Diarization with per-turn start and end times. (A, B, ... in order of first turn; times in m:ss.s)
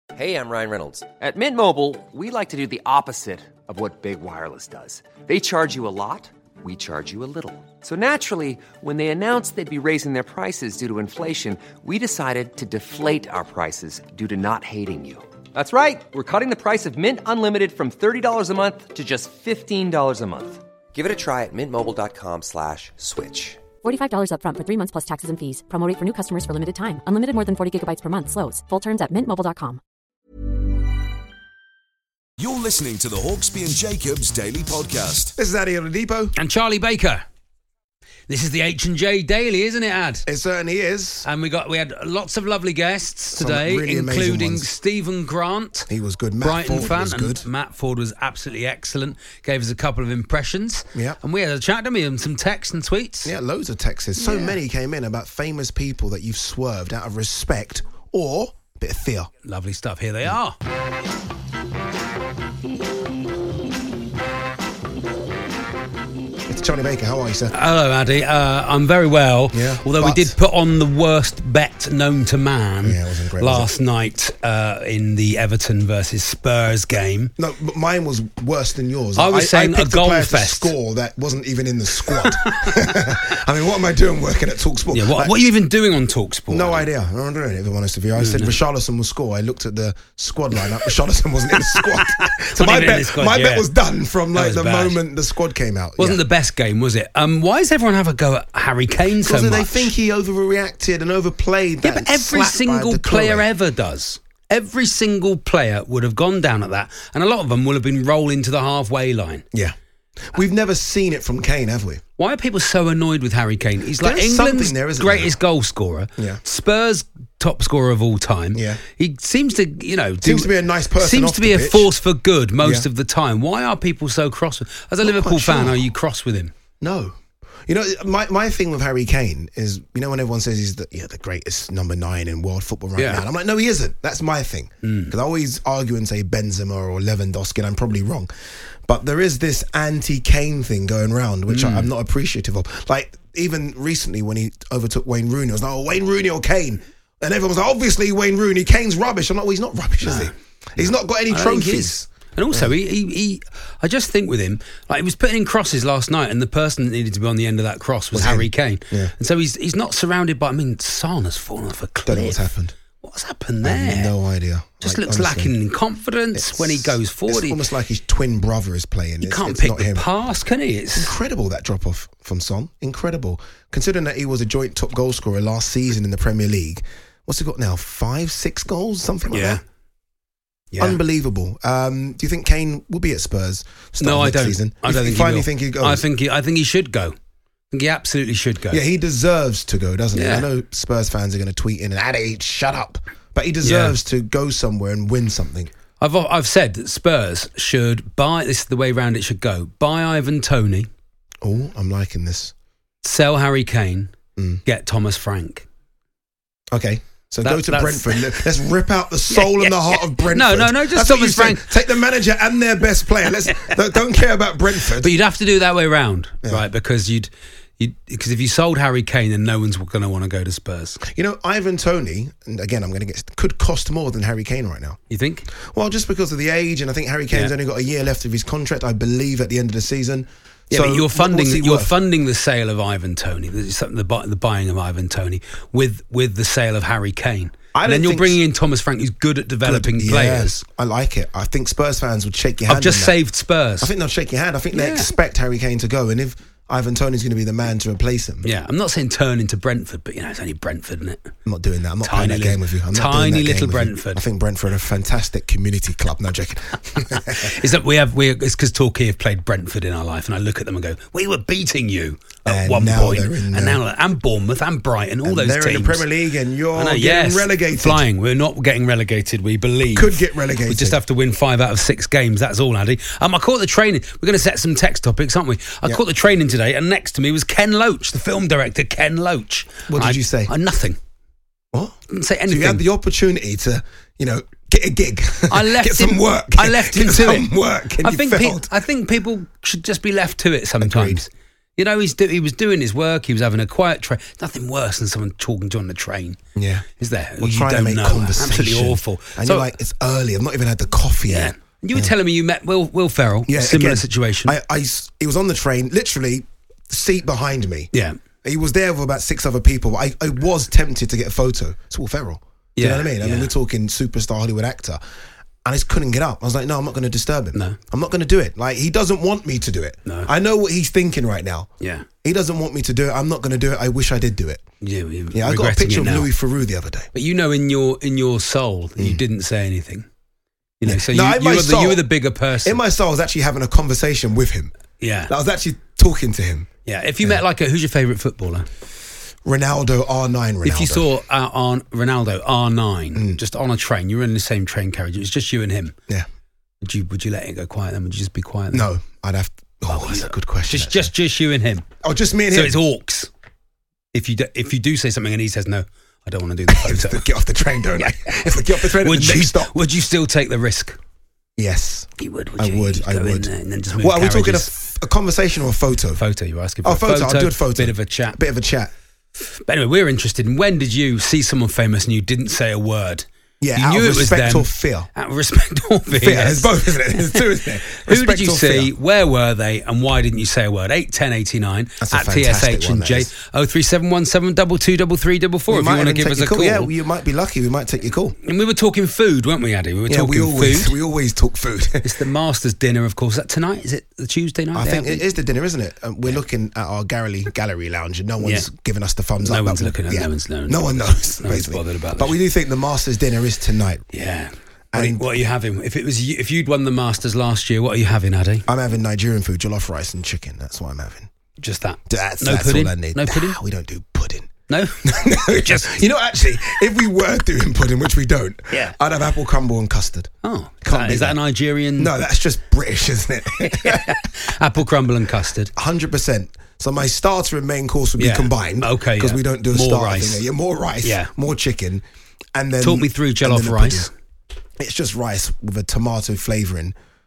0:00.1-0:23.6 A
0:23.8-0:29.8 B
0:32.4-0:35.4 C
0:35.4-0:36.3 D
0:36.4-0:37.2 E
0:38.3-0:40.3 E
0:40.3-0:41.3 D
0:41.2-0:45.9 E
0:43.3-0:44.7 D
0:45.9-0:47.5 D
0:46.4-0:53.3 E
0:50.9-0:51.2 D
0:53.2-0:59.3 D
0:54.2-0:54.6 E
0:59.4-1:00.6 E
1:06.5-1:07.5 D
1:07.5-1:17.3 E
1:09.5-1:10.4 D
1:12.8-1:13.8 D
1:17.4-1:25.4 D
1:19.2-1:20.7 E
1:22.1-1:22.8 E
1:24.9-1:26.9 E
1:26.5-1:36.2 D
1:28.2-1:28.6 E
1:31.6-1:33.7 E
1:34.3-1:35.0 E
1:36.0-1:39.9 E
1:39.1-1:43.5 D
1:41.8-1:49.5 E
1:50.3-1:52.0 D
1:52.2-2:06.5 E
1:54.0-1:55.4 D
1:56.2-1:56.4 D
1:58.5-1:58.8 D
2:00.2-2:01.9 D
2:02.6-2:02.9 D
2:05.0-2:05.9 D
2:06.8-2:18.3 D
2:13.0-2:13.3 E
2:14.8-2:15.2 E
2:18.9-2:32.7 D
2:21.5-2:21.9 E
2:30.0-2:42.4 E
2:38.1-2:39.1 D
2:42.1-2:42.8 D
2:43.0-2:44.1 E
2:43.6-2:45.5 D
2:44.8-2:47.6 E
2:46.3-2:50.1 D
2:49.2-2:51.1 E
2:51.0-2:59.6 D
2:59.3-2:59.6 E
3:00.7-3:01.0 E
3:00.8-3:06.1 D
3:04.0-3:07.2 E
3:07.7-3:08.8 E
3:08.7-3:15.7 D
3:10.1-3:10.5 E
3:13.6-3:14.0 E
3:16.0-3:20.9 E
3:21.4-3:22.5 D
3:23.0-3:24.1 E
3:24.4-3:24.6 D
3:24.6-3:25.7 E
3:26.7-3:35.1 D
3:27.4-3:28.5 E
3:29.3-3:31.8 E
3:33.5-3:33.8 E
3:35.0-3:41.0 E
3:41.0-3:45.0 D
3:45.1-3:45.5 E
3:45.5-3:52.0 D
3:50.7-4:00.6 E
3:57.7-3:58.4 D
3:59.6-4:03.2 D
4:02.7-4:03.9 E
4:03.8-4:08.5 D
4:04.7-4:05.1 E
4:08.4-4:11.3 E
4:11.4-4:17.6 D
4:12.0-4:14.2 E
4:17.1-4:26.1 E
4:22.4-4:23.8 D
4:25.2-4:28.0 D
4:26.8-4:41.0 E
4:29.9-4:31.0 D
4:39.9-4:40.5 D
4:41.7-4:48.7 D
4:42.1-4:42.8 E
4:45.5-4:56.4 E
4:50.8-4:51.2 D
4:56.6-4:56.9 D
4:57.0-4:59.8 E
4:57.4-5:02.1 D
5:01.3-5:04.6 E
5:03.5-5:07.9 D
5:07.9-5:08.2 E
5:08.4-5:15.0 D
5:12.8-5:13.5 E
5:15.6-5:21.7 D
5:20.1-5:20.3 E
5:21.8-5:22.1 E
5:22.2-5:24.6 D
5:24.8-5:26.3 E
5:25.3-5:27.1 D
5:27.1-5:30.1 E
5:30.8-5:32.8 E
5:30.8-5:32.0 D
5:32.6-5:34.7 D
5:35.0-5:35.3 E
5:35.3-5:36.7 D
5:36.9-5:38.7 E
5:39.4-5:41.1 D
5:40.6-5:46.0 E
5:43.1-5:43.4 D
5:46.8-5:48.9 E
5:48.7-5:51.1 D
5:49.9-5:51.9 E
5:52.0-5:52.8 D
5:52.5-5:53.3 E
5:54.1-5:57.3 E
5:56.7-5:59.7 D
5:57.8-6:01.0 E
6:01.6-6:06.2 D
6:02.2-6:04.7 E
6:06.2-6:08.4 E
6:06.8-6:08.9 D
6:09.7-6:17.4 E
6:13.6-6:15.1 D
6:16.1-6:18.9 D
6:18.0-6:26.9 E
6:22.0-6:23.3 D
6:25.7-6:28.4 D
6:28.4-6:31.0 E
6:30.1-6:32.1 D
6:32.0-6:35.3 E
6:34.7-6:44.1 D
6:38.4-6:38.7 E
6:39.4-6:42.4 E
6:44.1-6:48.6 E
6:44.9-6:45.3 D
6:48.7-6:51.3 D
6:51.6-6:53.6 E
6:52.1-6:54.5 D
6:54.7-6:56.0 E
6:55.0-7:00.3 D
6:58.7-6:59.0 E
7:00.4-7:02.2 E
7:00.8-7:01.4 D
7:02.0-7:04.2 D
7:03.6-7:05.7 E
7:05.8-7:14.1 D
7:08.2-7:10.5 E
7:11.0-7:11.3 E
7:12.8-7:14.1 E
7:14.8-7:17.0 D